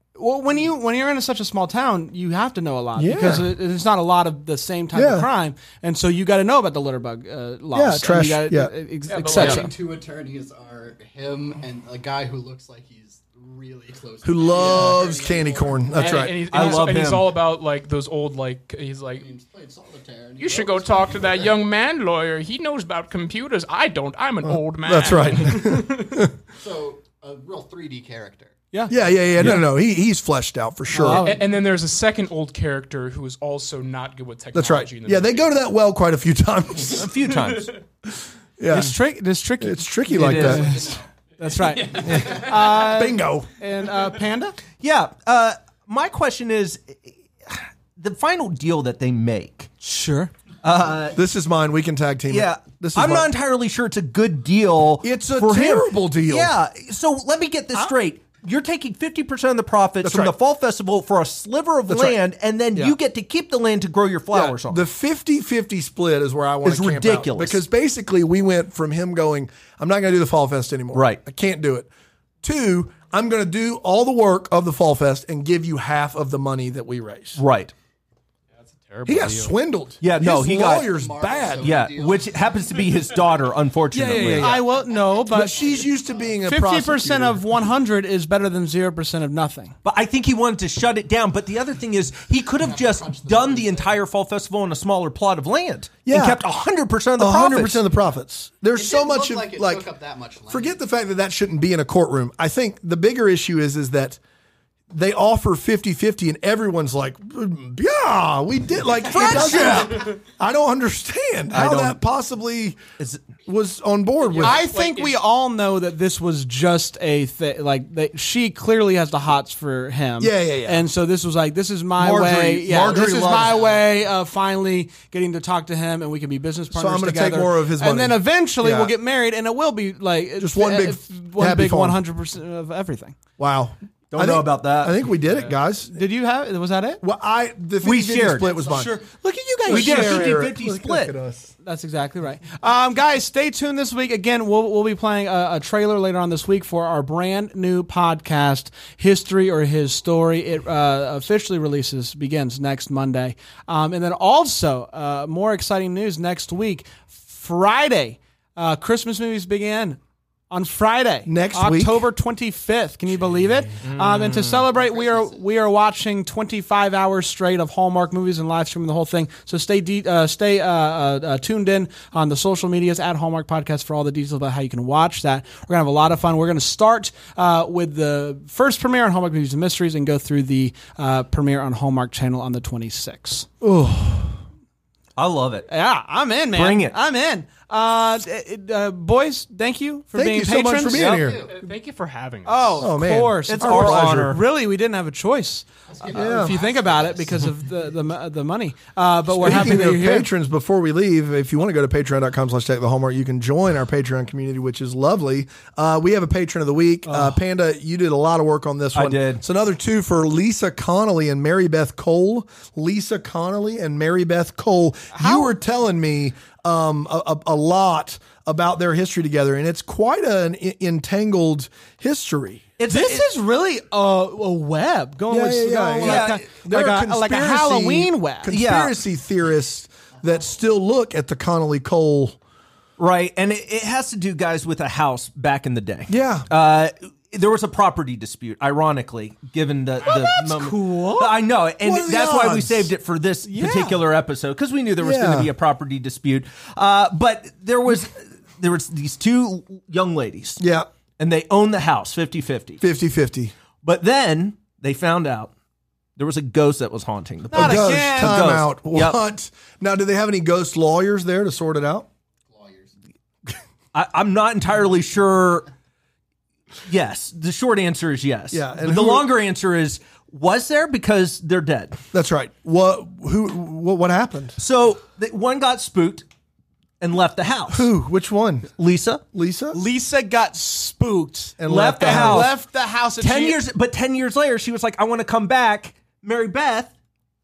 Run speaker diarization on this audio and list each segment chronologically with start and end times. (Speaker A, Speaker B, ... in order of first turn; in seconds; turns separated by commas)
Speaker A: 0.1-9.7, Speaker B: 3.0-3.5, Speaker B: 4.9-5.3, Speaker B: 7.7-8.7, Speaker C: 9.1-9.7, Speaker D: 9.3-16.3, Speaker B: 14.2-16.6, Speaker C: 14.5-15.1, Speaker C: 15.9-19.2, Speaker E: 16.5-17.3, Speaker D: 19.2-21.6, Speaker C: 20.4-26.3, Speaker B: 24.4-26.3, Speaker D: 26.5-28.5, Speaker A: 28.7-29.6, Speaker B: 28.9-31.2, Speaker A: 30.9-31.5, Speaker C: 31.2-35.4, Speaker B: 34.5-37.1, Speaker E: 37.0-37.7, Speaker C: 37.4-37.8, Speaker B: 38.6-39.0, Speaker A: 38.7-44.6, Speaker B: 39.6-40.8, Speaker E: 40.2-40.7, Speaker D: 40.2-41.0, Speaker C: 41.6-42.5, Speaker B: 41.9-43.5, Speaker E: 44.8-49.7, Speaker A: 49.8-50.3, Speaker E: 50.6-51.2, Speaker B: 51.1-53.3, Speaker E: 52.3-64.8, Speaker B: 55.0-56.5, Speaker B: 60.0-60.3, Speaker B: 61.9-62.2, Speaker B: 64.3-71.9, Speaker E: 66.6-67.6, Speaker E: 70.9-71.2, Speaker B: 72.4-77.4, Speaker E: 77.4-77.7, Speaker C: 78.7-79.5, Speaker B: 79.0-81.8, Speaker E: 80.0-80.9, Speaker D: 80.7-82.5, Speaker E: 81.6-84.6, Speaker B: 83.9-87.4, Speaker A: 84.3-85.8, Speaker A: 86.4-89.7, Speaker E: 89.8-97.8, Speaker D: 92.6-94.0, Speaker B: 96.0-96.4, Speaker B: 97.2-99.8, Speaker D: 98.7-100.8, Speaker B: 100.5-104.2, Speaker B: 104.9-112.8, Speaker E: 109.1-110.1, Speaker D: 109.2-109.8, Speaker E: 111.5-112.0, Speaker E: 113.0-113.2, Speaker B: 113.4-114.6, Speaker C: 114.2-115.2, Speaker A: 114.4-133.1, Speaker B: 120.2-120.8, Speaker B: 122.0-123.7, Speaker D: 123.2-123.8, Speaker B: 126.7-128.9, Speaker B: 130.4-132.0, Speaker B: 133.4-135.9, Speaker E: 134.1-135.0, Speaker A: 135.9-137.0, Speaker B: 137.0-139.0, Speaker E: 137.8-138.9, Speaker A: 138.7-140.5, Speaker B: 139.6-141.5, Speaker E: 139.7-141.1, Speaker A: 141.6-160.0, Speaker A: 160.5-183.5, Speaker B: 161.2-162.1, Speaker E: 163.8-164.6, Speaker D: 164.7-165.4, Speaker B: 183.6-184.4, Speaker E: 185.2-185.7, Speaker A: 185.7-191.4, Speaker E: 186.5-186.9, Speaker B: 190.1-191.5, Speaker D: 190.9-191.5, Speaker C: 191.5-192.9, Speaker A: 192.4-200.3, Speaker B: 192.8-194.4, Speaker E: 193.5-194.4, Speaker D: 195.9-197.4, Speaker B: 196.1-196.6, Speaker B: 199.4-222.7, Speaker A: 207.1-207.4, Speaker E: 208.9-209.4, Speaker A: 215.1-215.5, Speaker E: 222.8-223.3, Speaker A: 222.9-228.6, Speaker B: 225.3-232.4, Speaker E: 226.0-226.4, Speaker E: 228.5-229.0, Speaker E: 233.0-250.6, Speaker B: 236.1-236.5, Speaker A: 240.0-241.3, Speaker B: 241.8-242.9, Speaker A: 243.4-244.0, Speaker B: 245.0-245.5, Speaker B: 250.6-250.9, Speaker E: 251.2-252.8, Speaker B: 252.8-253.5, Speaker E: 253.8-255.5, Speaker E: 256.2-259.2, Speaker A: 257.5-258.5, Speaker B: 257.5-262.1, Speaker D: 262.5-262.9, Speaker E: 263.9-265.7, Speaker E: 266.9-272.0, Speaker B: 268.5-269.3, Speaker B: 272.1-274.6, Speaker E: 274.6-276.2, Speaker E: 277.0-277.9, Speaker B: 277.7-278.7, Speaker E: 278.8-279.2, Speaker B: 279.3-279.8, Speaker A: 279.7-283.6, Speaker B: 281.6-282.5, Speaker E: 281.6-282.6, Speaker E: 283.2-286.9